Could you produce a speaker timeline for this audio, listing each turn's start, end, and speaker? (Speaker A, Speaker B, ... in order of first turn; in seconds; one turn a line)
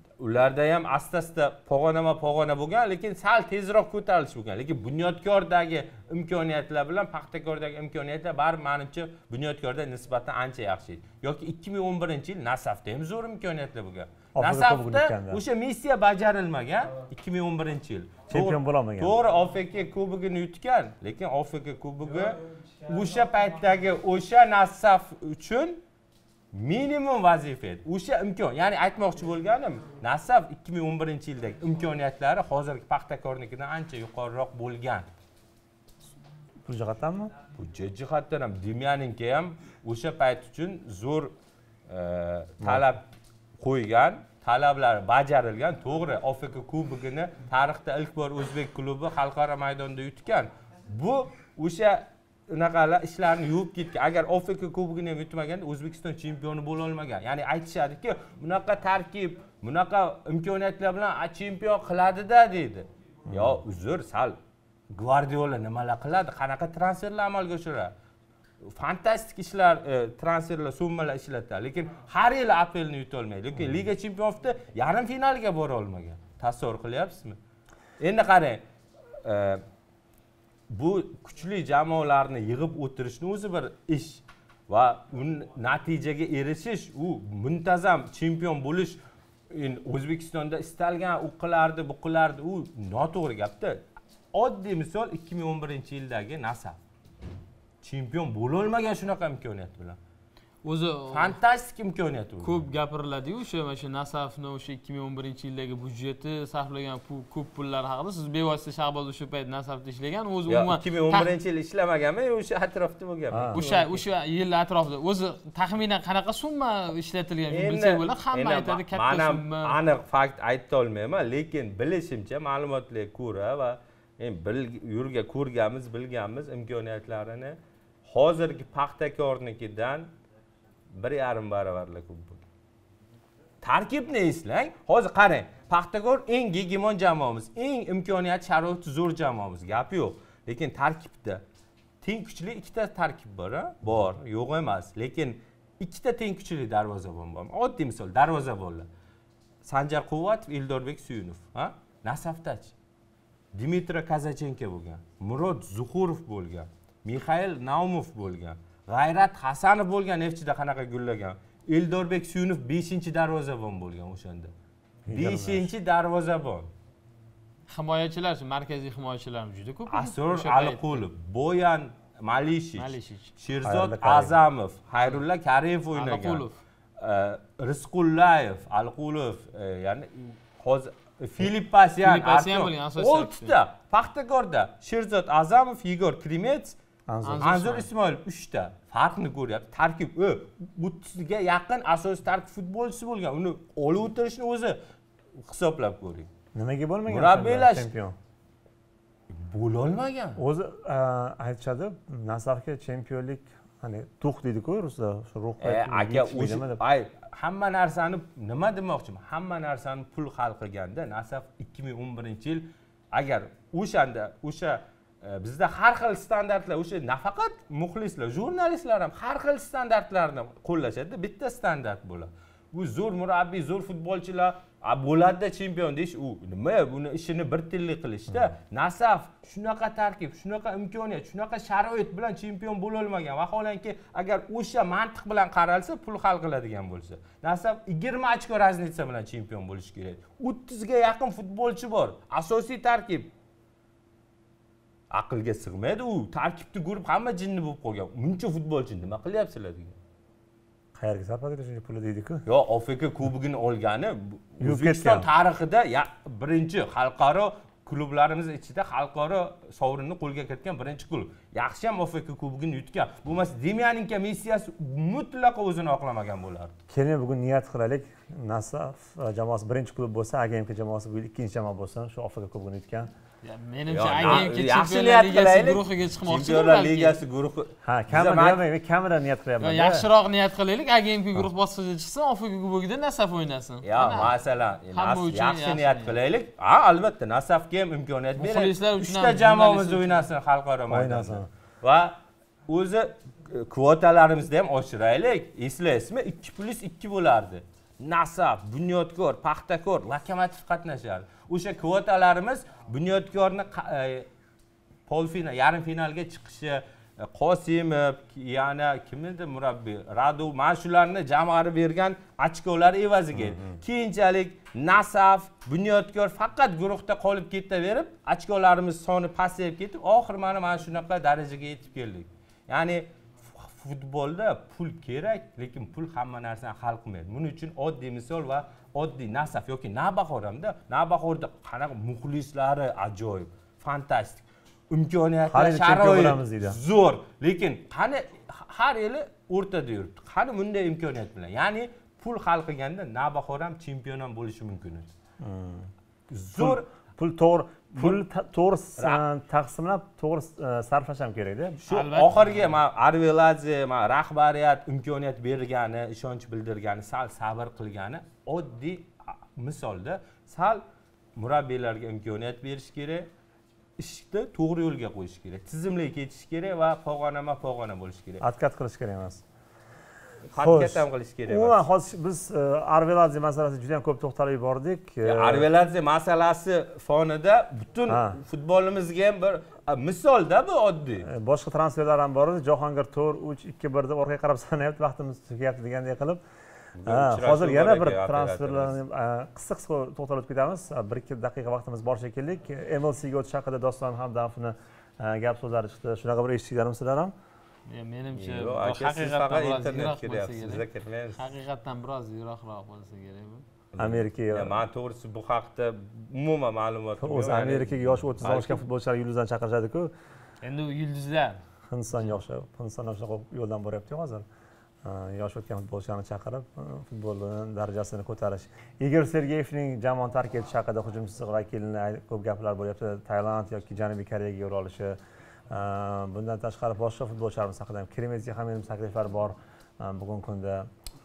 Speaker A: 0.2-25.8
Speaker B: 14.3-15.4
Speaker B: 18.3-19.1
Speaker A: 26.5-35.1
Speaker B: 36.6-37.3
Speaker A: 37.5-41.3
Speaker A: 41.9-43.0
Speaker B: 42.6-42.9
Speaker A: 43.6-64.4
Speaker B: 63.3-63.6
Speaker A: 64.9-67.9
Speaker A: 68.6-77.4
Speaker A: 78.0-78.6
Speaker A: 79.2-79.6
Speaker A: 80.7-96.8
Speaker A: 97.8-100.0
Speaker C: 100.6-101.4
Speaker A: 101.1-102.6
Speaker C: 102.4-111.3
Speaker A: 110.5-114.0
Speaker B: 113.3-113.6
Speaker C: 113.5-119.7
Speaker A: 117.5-130.1
Speaker A: 130.9-132.4
Speaker A: 133.6-141.4
Speaker A: 142.0-148.9
Speaker A: 149.6-152.7
Speaker A: 153.5-164.5
Speaker B: 165.1-165.7
Speaker A: 165.1-166.7
Speaker C: 167.7-171.0
Speaker A: 169.9-176.4
Speaker C: 172.8-173.3
Speaker B: 173.6-174.4
Speaker C: 175.9-176.6
Speaker A: 177.0-186.8
Speaker C: 182.0-183.5
Speaker B: 187.1-187.5
Speaker C: 187.2-187.9
Speaker A: 187.4-194.8
Speaker A: 195.4-196.3
Speaker B: 196.5-198.2
Speaker A: 197.1-197.9
Speaker A: 199.3-200.4
Speaker B: 200.4-206.8
Speaker A: 205.6-243.3
Speaker A: 245.1-250.0
Speaker B: 250.9-252.4
Speaker A: 252.4-266.7
Speaker B: 254.6-255.2
Speaker B: 266.9-273.1
Speaker C: 273.4-277.2
Speaker A: 273.9-278.6
Speaker B: 277.8-280.1
Speaker C: 279.6-284.4
Speaker A: 283.8-304.3
Speaker C: 284.9-286.2
Speaker C: 288.4-290.3
Speaker B: 290.9-291.5
Speaker A: 305.1-345.1
Speaker B: 313.3-313.8
Speaker B: 335.5-336.8
Speaker B: 345.4-345.9
Speaker A: 346.3-346.9
Speaker B: 346.5-351.8
Speaker A: 347.9-348.2
Speaker A: 349.0-349.2
Speaker A: 351.8-360.8
Speaker C: 351.9-352.8
Speaker A: 361.4-363.3
Speaker A: 364.0-368.4
Speaker B: 368.4-369.4
Speaker A: 370.5-371.8
Speaker B: 370.6-375.6
Speaker A: 375.2-381.3
Speaker B: 378.1-378.4
Speaker B: 381.2-386.4
Speaker A: 386.9-389.0
Speaker B: 387.0-397.3
Speaker C: 397.9-403.6
Speaker A: 398.3-401.4
Speaker A: 403.9-408.8
Speaker B: 404.0-404.8
Speaker B: 407.2-410.1
Speaker C: 410.6-411.6
Speaker B: 411.9-414.4
Speaker B: 415.0-425.2
Speaker B: 425.7-430.9